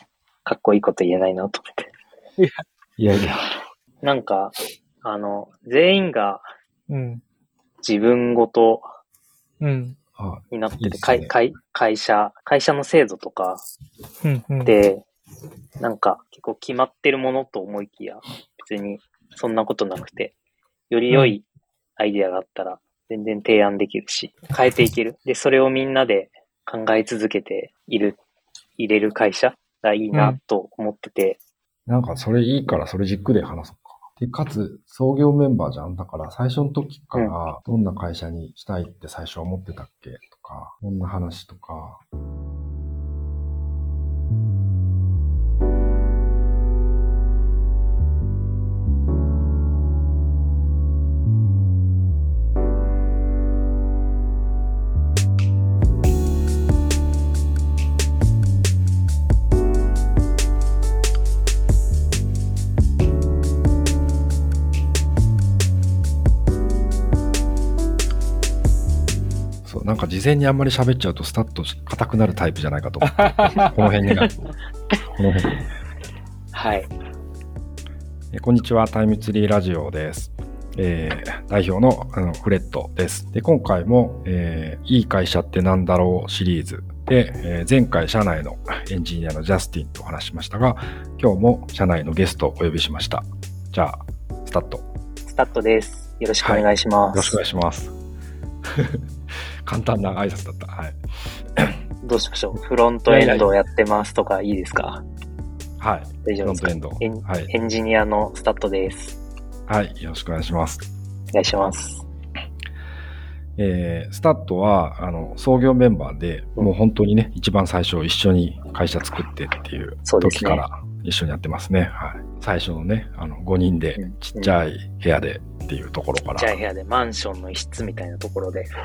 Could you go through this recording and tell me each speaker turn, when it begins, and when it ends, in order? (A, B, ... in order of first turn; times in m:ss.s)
0:00.4-0:01.9 A
0:02.4-0:02.6 B
0:03.0-0:03.4 C
0:04.0-0:06.5 A
0:06.9-0:07.2 B
0:07.8-0:08.9 A
0:09.6-0:10.0 B
0:10.2-0:11.3 C
0:10.5-0:13.6 A
0:14.2-0:14.8 B
0:14.6-0:15.0 A
0:15.8-0:20.4 A
0:20.9-0:21.4 A
0:21.1-0:21.4 B
0:22.0-0:28.2 A
0:28.8-0:31.4 A
0:30.1-0:30.4 B
0:31.9-0:42.0 C
1:09.6-1:14.3 C
1:13.2-1:13.7 B
1:15.2-1:15.6 C
1:16.5-1:16.9 A
1:18.3-1:34.9 C
1:35.3-1:37.4 A
1:36.4-1:38.0 C
1:38.7-1:39.0 C
1:39.7-1:41.0 C
1:42.0-1:45.0 A
1:43.1-1:43.4 B
1:43.2-1:43.5 C
1:45.8-1:47.5 C
1:46.2-1:49.2 A
1:49.7-1:50.8 C
1:51.3-1:52.0 A
1:53.6-2:06.6 C
2:00.0-2:00.6 A
2:04.0-2:04.6 A
2:06.4-2:08.7 A